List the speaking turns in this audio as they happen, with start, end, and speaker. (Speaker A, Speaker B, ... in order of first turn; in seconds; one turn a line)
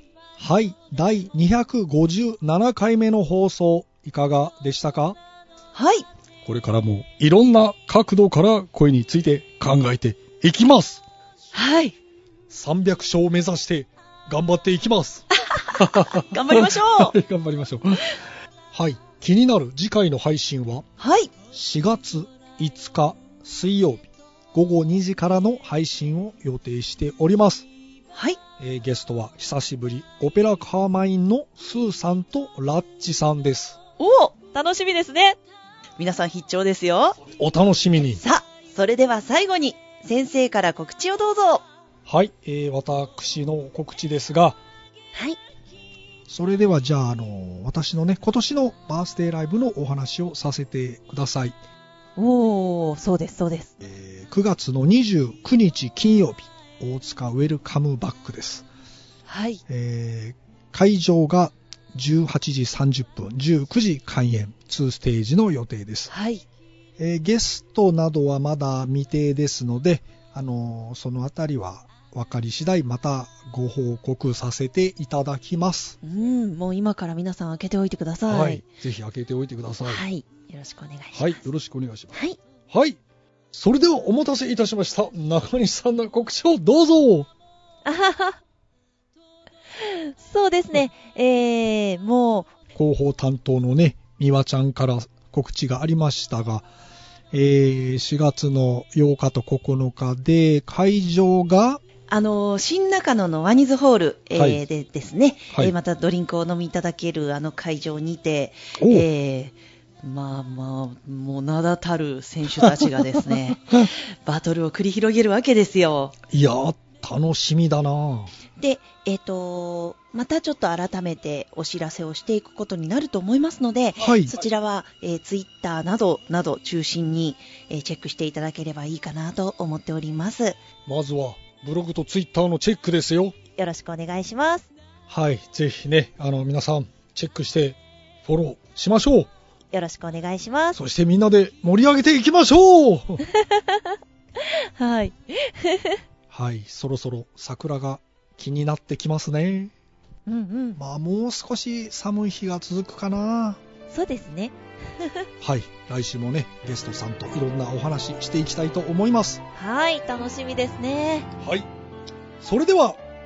Speaker A: 0.4-5.2
Speaker B: 5.7-6.1
Speaker A: 6.4-11.0
Speaker B: 11.5-12.0
Speaker A: 12.5-15.2
Speaker B: 15.4-17.1
Speaker A: 15.8-18.1
Speaker A: 18.7-20.9
Speaker B: 21.0-21.3
Speaker A: 21.5-27.7
Speaker B: 28.1-28.4
Speaker A: 28.6-33.8
Speaker B: 34.0-35.4
Speaker B: 36.0-37.2
Speaker A: 37.3-38.2
Speaker B: 38.1-41.6
Speaker A: 42.1-44.6
Speaker B: 45.1-45.4
Speaker A: 46.3-51.6
Speaker B: 52.2-53.7
Speaker A: 53.8-58.6
Speaker B: 59.3-59.6
Speaker A: 59.7-66.1
Speaker B: 66.1-66.5
Speaker A: 67.0-76.0
Speaker B: 76.0-78.6
Speaker A: 78.3-80.0
Speaker B: 79.8-81.5
Speaker A: 81.1-83.0
Speaker B: 82.1-82.4
Speaker A: 83.5-87.3
Speaker B: 87.8-88.4
Speaker B: 89.8-92.5
Speaker A: 92.7-96.7
Speaker A: 97.3-101.8
Speaker B: 102.1-116.1
Speaker A: 104.3-104.6
Speaker A: 108.8-109.1
Speaker A: 116.3-118.3
Speaker B: 118.6-130.6
Speaker A: 124.0-124.4
Speaker A: 130.9-133.4
Speaker B: 133.5-134.7
Speaker A: 135.1-139.3
Speaker B: 139.7-140.8
Speaker A: 140.8-143.2
Speaker B: 143.3-143.9
Speaker B: 144.4-146.0
Speaker A: 146.3-149.7
Speaker B: 150.2-150.8
Speaker A: 150.8-153.6
Speaker B: 153.9-155.2
Speaker A: 155.4-159.4
Speaker B: 159.5-161.3
Speaker A: 161.4-161.7
Speaker A: 162.4-163.0